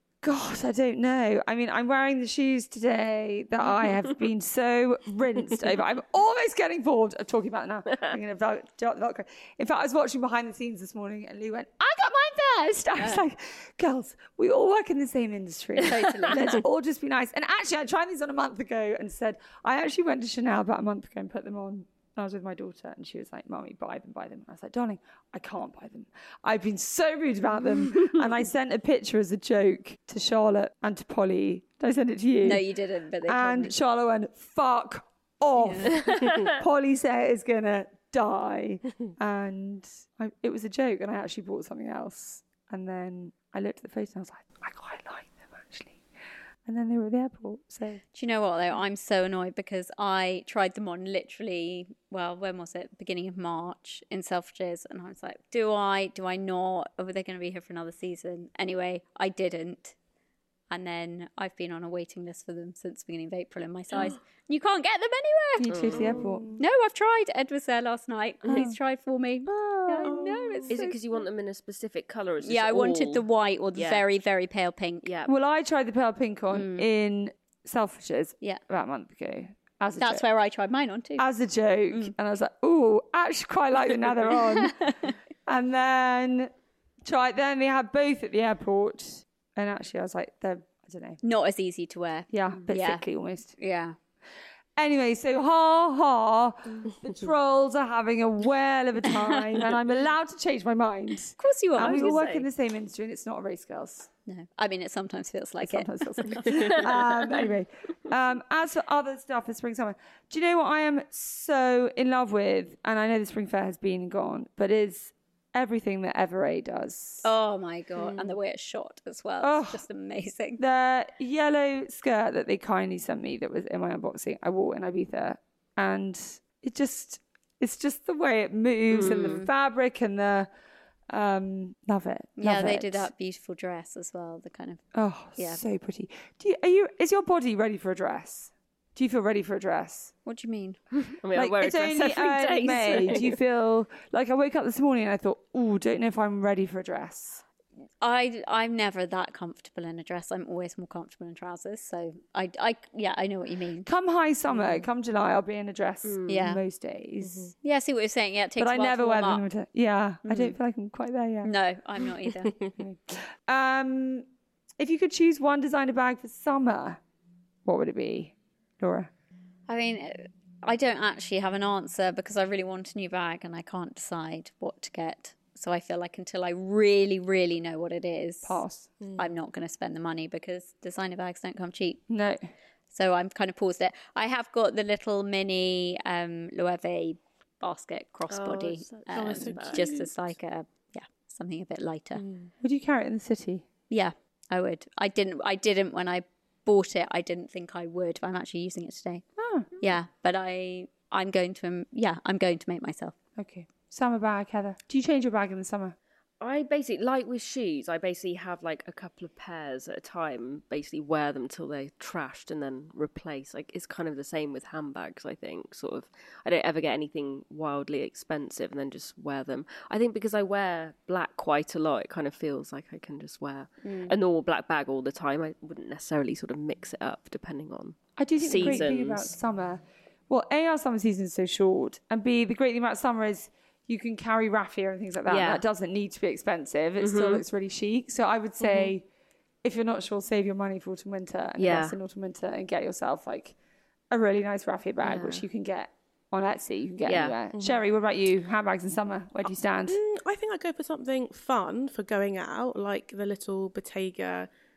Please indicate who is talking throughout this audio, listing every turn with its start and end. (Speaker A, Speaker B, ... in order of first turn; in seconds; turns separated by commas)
Speaker A: 0.2-32.7, Speaker B: 15.8-16.6, Speaker B: 32.4-33.7, Speaker A: 33.2-46.0, Speaker B: 35.5-35.9, Speaker A: 46.6-48.0, Speaker B: 48.1-60.0, Speaker B: 60.7-65.9, Speaker A: 65.6-66.6, Speaker C: 65.7-66.2, Speaker D: 65.9-66.6, Speaker B: 66.6-71.0, Speaker A: 68.5-68.8, Speaker A: 69.5-70.1, Speaker D: 70.0-70.7, Speaker C: 70.7-74.0, Speaker B: 72.4-75.1, Speaker C: 75.0-75.3, Speaker A: 75.2-80.2, Speaker B: 76.5-76.9, Speaker B: 80.0-81.2, Speaker A: 81.2-84.9, Speaker B: 84.6-85.1, Speaker A: 85.5-86.5, Speaker A: 87.0-91.2, Speaker B: 91.2-93.0, Speaker A: 92.3-93.5, Speaker B: 93.6-94.0, Speaker A: 94.8-104.1, Speaker B: 101.4-102.4, Speaker C: 101.8-102.2, Speaker B: 104.3-106.9, Speaker A: 105.6-117.3, Speaker B: 117.2-120.6, Speaker A: 119.4-119.8, Speaker A: 120.6-130.5, Speaker C: 128.9-129.4, Speaker B: 129.0-129.5, Speaker A: 131.1-133.1, Speaker B: 132.4-134.8, Speaker A: 134.9-140.1, Speaker B: 135.3-135.6, Speaker B: 140.2-140.8, Speaker C: 140.9-143.4, Speaker A: 141.3-147.4, Speaker B: 148.0-153.9, Speaker A: 153.8-157.5, Speaker C: 156.0-156.3, Speaker B: 156.3-156.6, Speaker D: 157.2-157.5, Speaker B: 157.6-159.4, Speaker A: 158.6-161.5, Speaker B: 160.2-160.6, Speaker B: 161.4-162.5, Speaker A: 162.8-164.2, Speaker A: 164.8-167.0, Speaker A: 167.6-169.1, Speaker B: 169.7-178.6, Speaker A: 178.4-178.9, Speaker D: 179.0-179.3, Speaker B: 179.2-182.0, Speaker A: 182.1-182.4, Speaker B: 182.9-192.2, Speaker C: 188.3-189.8, Speaker D: 189.1-190.1, Speaker D: 192.2-192.5, Speaker A: 192.6-193.7, Speaker B: 193.9-199.2, Speaker A: 199.4-199.7, Speaker B: 199.8-203.2, Speaker A: 203.3-205.9, Speaker C: 206.4-229.3, Speaker B: 223.8-224.1, Speaker A: 228.2-239.1, Speaker C: 235.3-235.6, Speaker C: 237.0-237.4, Speaker A: 239.6-243.5, Speaker C: 241.6-242.0, Speaker A: 244.1-250.0, Speaker C: 245.0-245.4, Speaker C: 247.0-247.3, Speaker D: 249.9-254.5